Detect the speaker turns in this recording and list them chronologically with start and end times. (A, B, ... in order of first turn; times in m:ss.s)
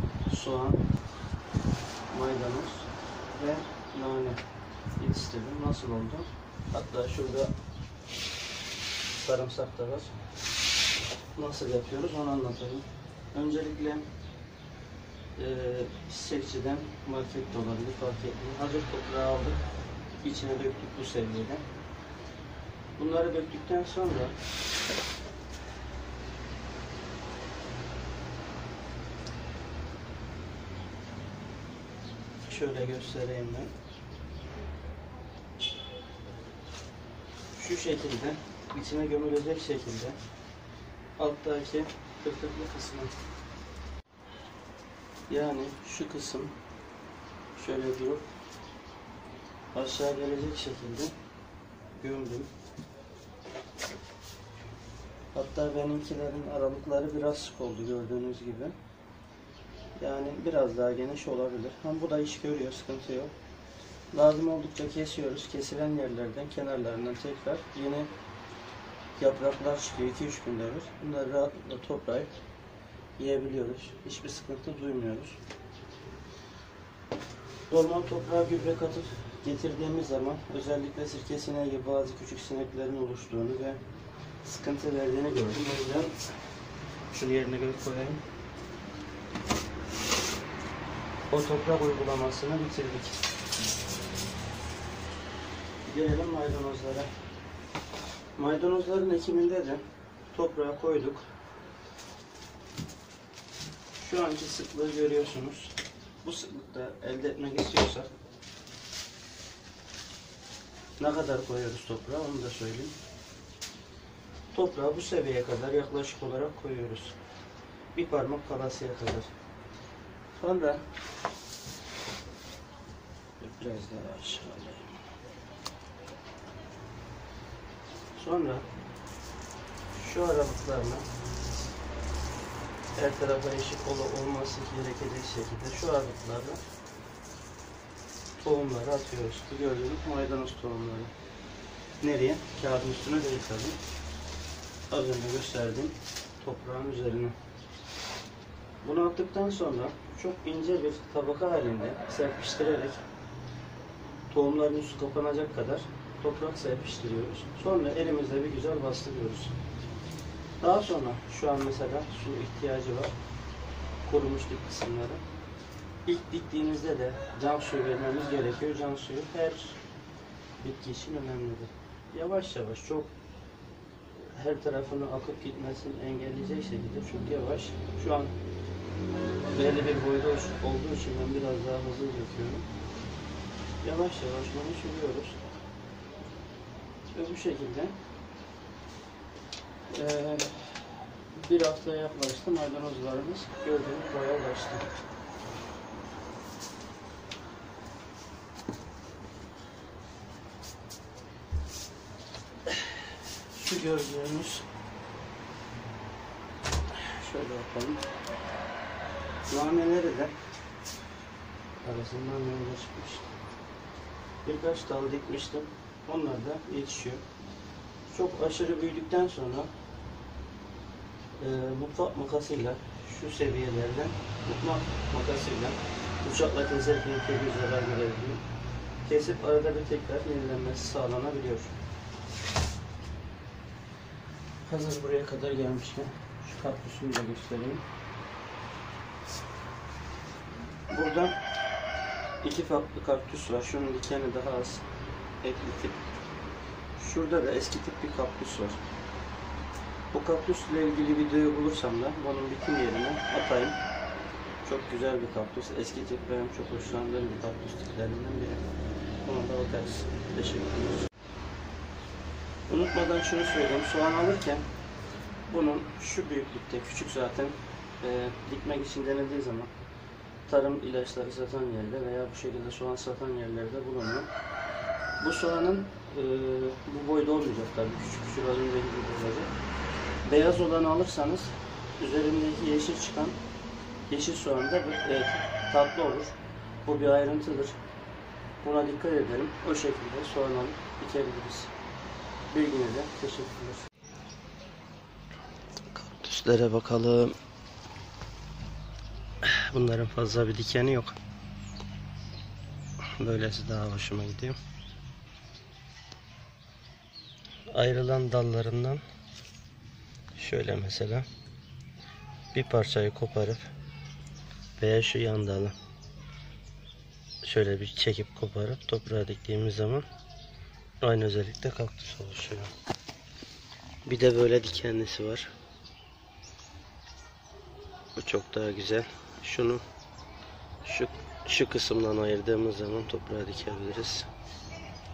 0:00.3-0:00.8 A
0:02.1-0:04.4 A
0:05.0-0:07.5 A
0:09.2-0:10.1 A
0:11.4-0:14.1 A
0:15.4-0:19.6 A
0:20.2-0:21.6 A
0:23.0-0:24.4 A
0:32.4-0:33.7 A
0:37.5-0:40.2 A
0:41.2-0:43.1 A
0:45.3-0:46.6 A
0:47.6-0:48.3 A
0:49.7-0:51.1 A
0:51.9-0:52.5 A
0:55.4-0:58.8 A
1:00.0-1:03.3 A
1:04.1-1:08.1 A
1:09.2-1:12.3 A
1:13.2-1:15.4 A
1:17.7-1:23.8 A
1:24.4-1:26.2 A
1:27.1-1:28.2 A
1:31.3-1:33.2 A
1:35.8-1:37.1 A
1:38.4-1:41.3 A
1:44.0-1:48.1 A
1:51.0-1:53.0 A
1:54.5-1:57.2 A
1:58.0-1:59.3 A
2:00.3-2:00.8 A
2:03.4-2:04.9 A
2:08.2-2:08.7 A
2:09.9-2:11.1 A
2:13.0-2:16.6 A
2:18.4-2:21.1 A
2:22.0-2:23.8 A
2:24.9-2:27.4 A
2:28.8-2:33.0 A
2:34.3-2:39.6 A
2:40.6-2:43.1 A
2:44.0-2:45.2 A
2:46.1-2:49.8 A
2:50.6-2:53.1 A
2:54.2-2:58.4 A
2:59.5-3:02.7 A
3:03.8-3:05.4 A
3:07.1-3:08.0 A
3:09.9-3:10.5 A
3:11.3-3:14.9 A
3:23.5-3:24.7 A
3:26.9-3:28.0 A
3:29.5-3:30.4 A
3:31.8-3:33.3 A
3:34.4-3:37.2 A
3:38.1-3:39.7 A
3:41.4-3:48.4 A
3:49.0-3:51.8 A
3:54.6-3:57.9 A
4:00.9-4:01.4 A
4:02.4-4:04.8 A
4:05.4-4:06.0 A
4:07.0-4:08.8 A
4:10.1-4:13.8 A
4:14.6-4:18.6 A
4:19.2-4:21.1 A
4:22.7-4:24.7 A
4:25.5-4:29.7 A
4:30.5-4:34.3 A
4:35.2-4:39.5 A
4:40.2-4:43.4 A
4:44.1-4:47.8 A
4:48.6-4:51.7 A
4:52.5-4:53.8 A
4:55.9-4:57.4 A
4:59.4-5:01.2 A
5:03.2-5:04.6 A
5:07.7-5:09.0 A
5:10.4-5:11.3 A
5:12.5-5:13.7 A
5:14.8-5:15.8 A
5:17.4-5:20.1 A
5:21.0-5:22.7 A
5:24.1-5:25.5 A
5:28.1-5:29.8 A
5:30.8-5:34.3 A